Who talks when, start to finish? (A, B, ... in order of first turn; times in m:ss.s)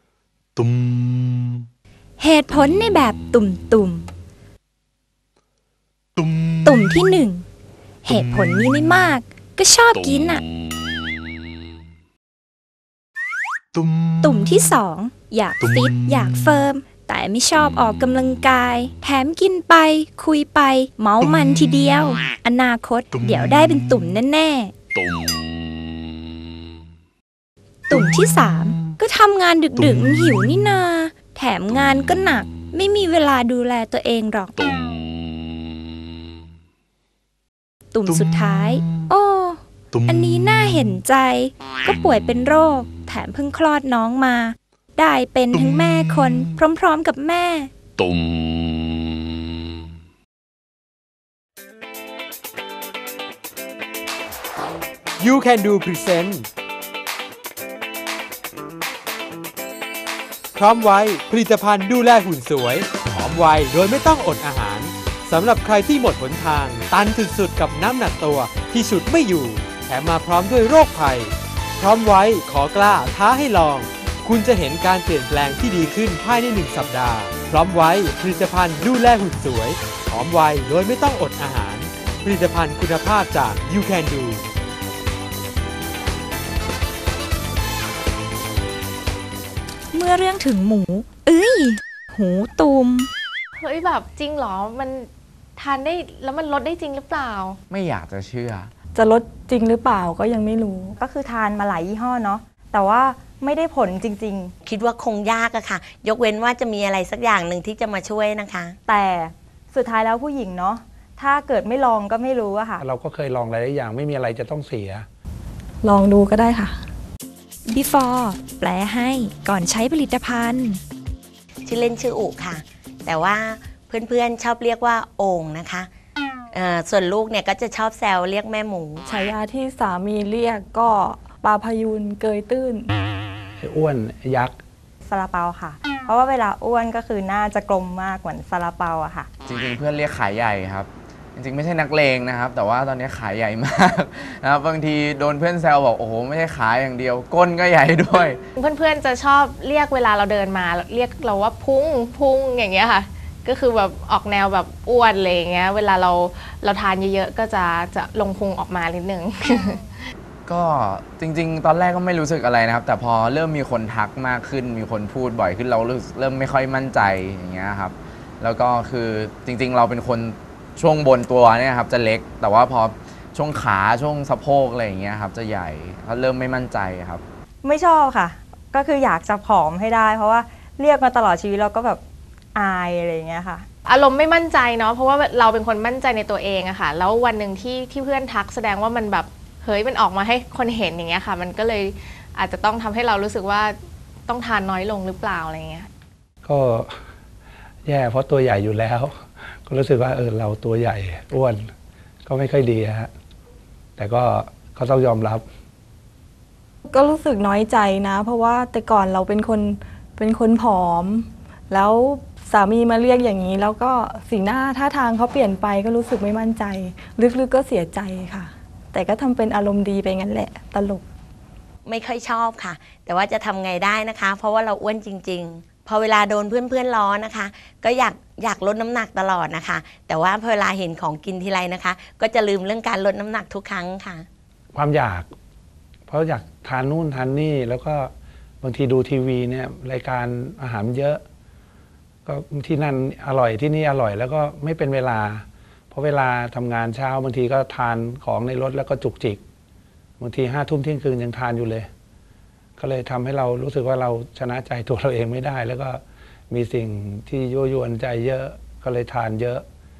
0:00.6-0:01.6 A
0:02.2-0:04.1 B
0:06.2-0:06.7 A
0:06.6-0:07.4 B
0:08.0-0:10.4 B
0:08.1-0:08.7 A
0:10.0-0:10.3 A
0:13.7-0:14.5 A
0:14.2-0:24.7 B
0:15.6-0:16.5 A
0:21.3-0:21.6 A
0:23.1-0:23.9 A
0:25.0-0:25.4 A
0:27.9-0:34.6 B
0:29.8-0:30.4 A
0:37.9-0:47.7 B
0:38.2-0:39.1 A
0:39.9-0:40.4 A
0:45.6-0:46.4 A
0:48.0-0:49.1 A
0:55.2-0:56.5 C
1:00.5-1:24.5 C
1:29.9-1:33.1 B
1:33.6-1:37.6 D
1:37.7-1:38.7 E
1:38.9-1:40.9 F
1:41.0-1:44.5 G
1:44.6-1:48.8 H
1:48.9-1:52.8 G
1:52.8-1:55.0 I
1:55.8-1:56.8 F
1:57.7-2:00.8 B
2:01.6-2:05.9 H
2:06.5-2:09.0 H
2:09.0-2:12.9 F
2:13.6-2:14.6 I
2:15.0-2:19.3 G
2:19.4-2:28.4 E
2:28.6-2:40.0 D
2:40.5-2:57.2 E
2:57.6-3:02.0 G
3:02.5-3:03.7 G
3:03.9-3:13.8 D
3:14.3-3:15.9 D
3:16.4-3:17.0 I
3:17.8-3:21.7 I
3:22.2-3:23.1 I
3:24.0-3:25.4 I
3:26.9-3:41.0 F
3:41.8-3:54.2 H
3:54.7-3:55.3 I
3:56.1-4:01.2 I
4:02.2-4:09.4 I
4:10.2-4:11.9 I
4:12.8-4:19.6 I